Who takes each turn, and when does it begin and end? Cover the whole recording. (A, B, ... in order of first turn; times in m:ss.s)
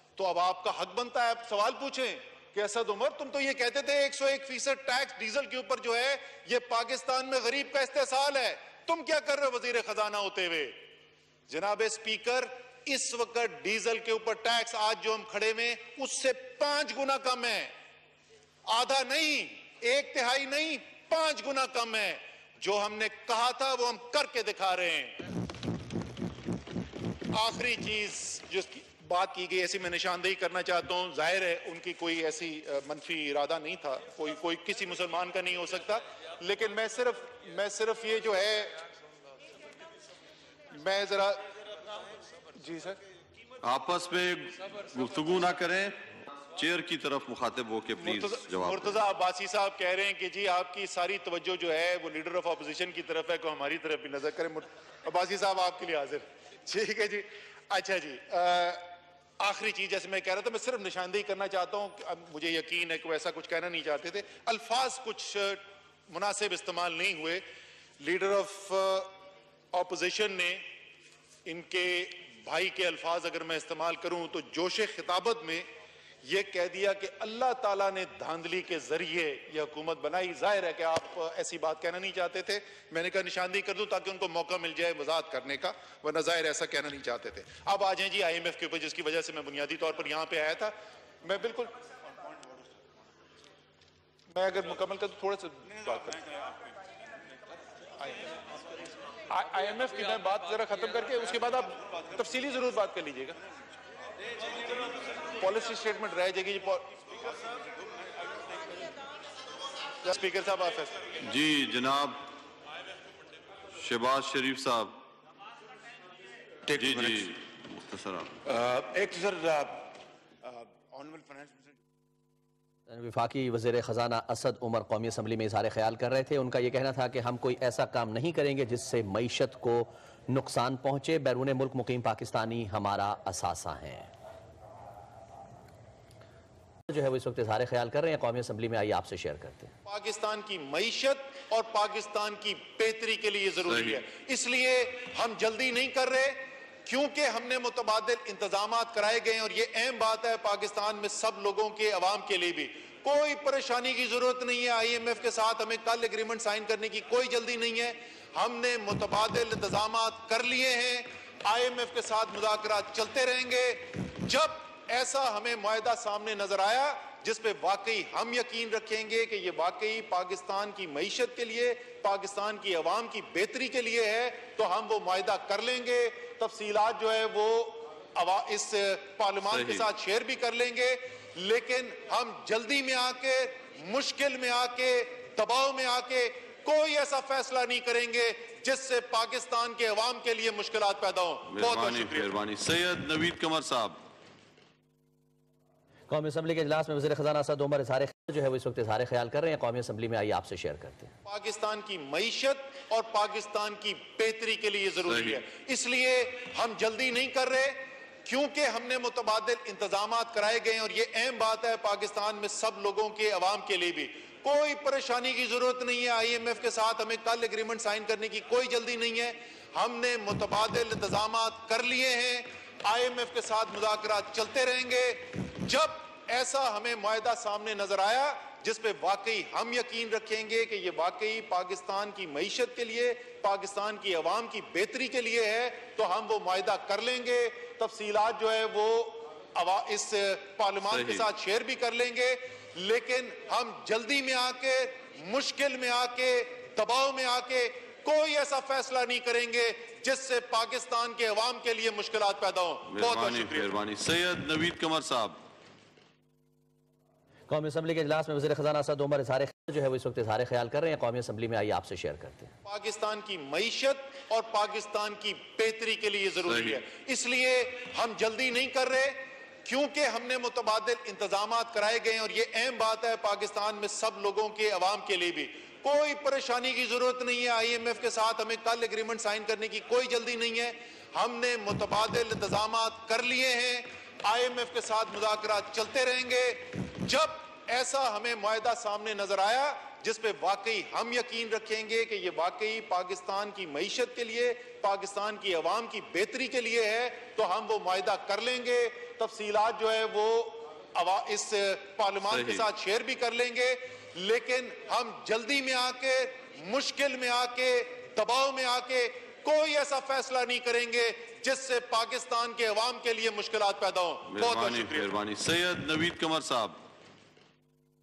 0:00.2-0:10.8 A
0:11.5-0:17.7 A
0:18.7-0:25.2 A
0:27.3-0:38.8 A
0:40.7-0:41.4 A
0:42.6-0:43.0 A
0:43.6-0:46.0 B
0:46.6-0:49.0 B
0:48.0-0:58.8 A
0:59.4-1:07.4 A
1:08.0-1:09.1 A
1:09.7-1:10.6 A
1:11.4-1:15.6 A
1:16.2-1:30.7 A
1:31.2-1:31.7 A
1:34.3-1:36.2 A
1:38.0-1:38.3 A
1:39.3-1:43.4 A
1:45.4-1:46.8 A
1:50.0-1:51.0 A
1:51.2-1:52.2 B
1:53.8-1:55.0 B
1:56.7-1:58.4 B
1:58.8-1:59.6 A
2:02.9-2:14.1 C
2:16.9-2:19.7 C
2:19.8-3:12.3 A
2:23.6-2:24.0 B
2:59.5-2:59.9 B
3:11.5-3:14.0 B
3:16.1-3:21.1 C
3:21.2-4:13.7 A
3:25.0-3:25.4 B
4:00.8-4:01.3 B
4:12.9-4:15.4 B
4:17.5-4:22.5 C
4:22.6-5:15.1 A
4:26.4-4:26.8 B
5:02.3-5:02.7 B
5:14.3-5:16.8 B